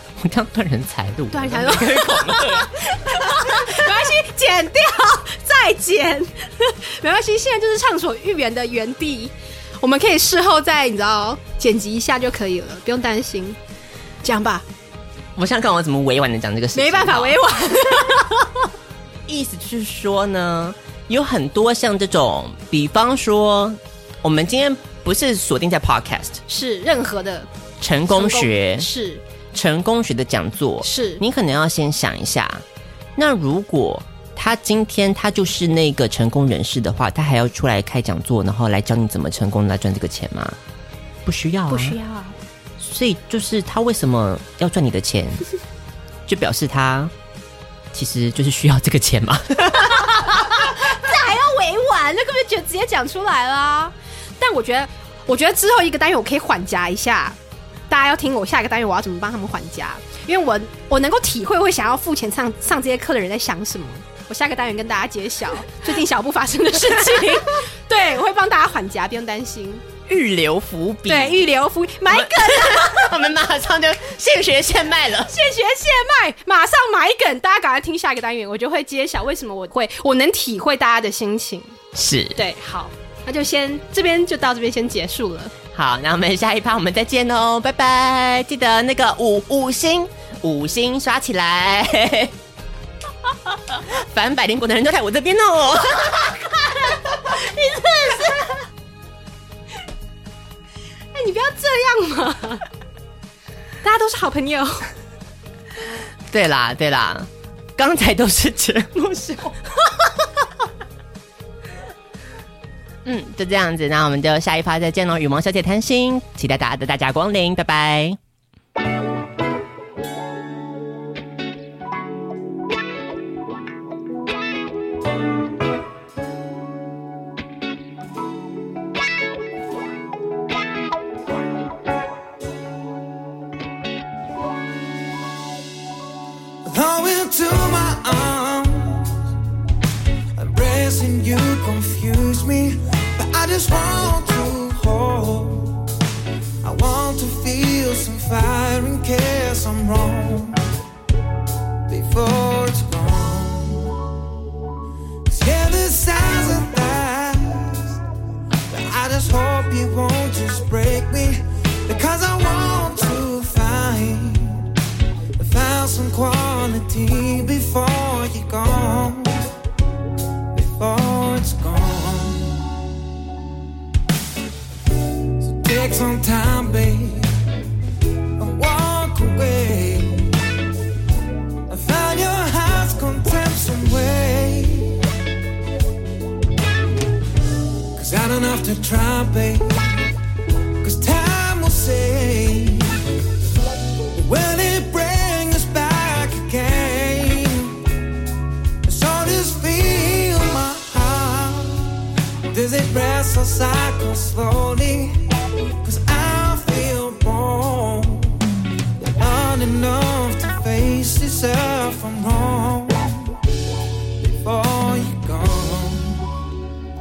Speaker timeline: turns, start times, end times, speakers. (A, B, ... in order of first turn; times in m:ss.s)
0:00.2-0:03.7 A
0:01.3-0:13.6 B
0:14.2-0:14.6 B
0:15.4-0:17.4 A
0:16.8-0:18.6 B
0:19.3-0:26.4 A
0:26.5-0:27.5 B
0:27.8-0:28.9 A
0:28.1-0:29.2 B
0:29.5-0:32.6 A
0:30.8-0:31.2 B
0:33.2-0:40.6 A
0:41.3-0:42.0 A
0:41.7-0:42.4 B
0:42.8-0:45.4 A
0:46.3-0:47.1 A
0:47.9-0:50.6 A
0:49.8-0:57.4 B
0:57.9-1:09.8 B
1:10.1-1:11.5 A
1:11.1-1:13.3 B
1:12.1-1:15.3 A
1:15.3-1:21.8 B
1:22.0-1:22.4 A
1:22.4-1:25.5 B
1:25.7-1:32.3 A
1:33.8-1:36.5 A
1:37.2-1:38.4 B
1:41.1-1:42.7 B
1:43.8-1:44.9 B
1:46.3-1:49.5 A
1:53.0-1:58.2 A
2:16.7-2:19.2 C
2:20.4-2:25.8 C
2:26.6-2:30.7 C
2:31.9-2:34.0 C
2:35.3-2:38.0 C
2:38.7-2:44.7 C
2:45.4-2:49.4 C
2:50.5-2:52.6 C
2:55.5-2:57.3 C
2:58.4-3:00.4 C
3:01.7-3:05.0 C
3:08.0-3:10.0 C
3:10.8-3:13.0 C
3:14.2-3:17.8 C
3:18.8-3:21.8 C
3:22.5-3:25.3 C
3:25.8-3:28.4 C
3:29.2-3:33.3 C
3:34.3-3:36.2 C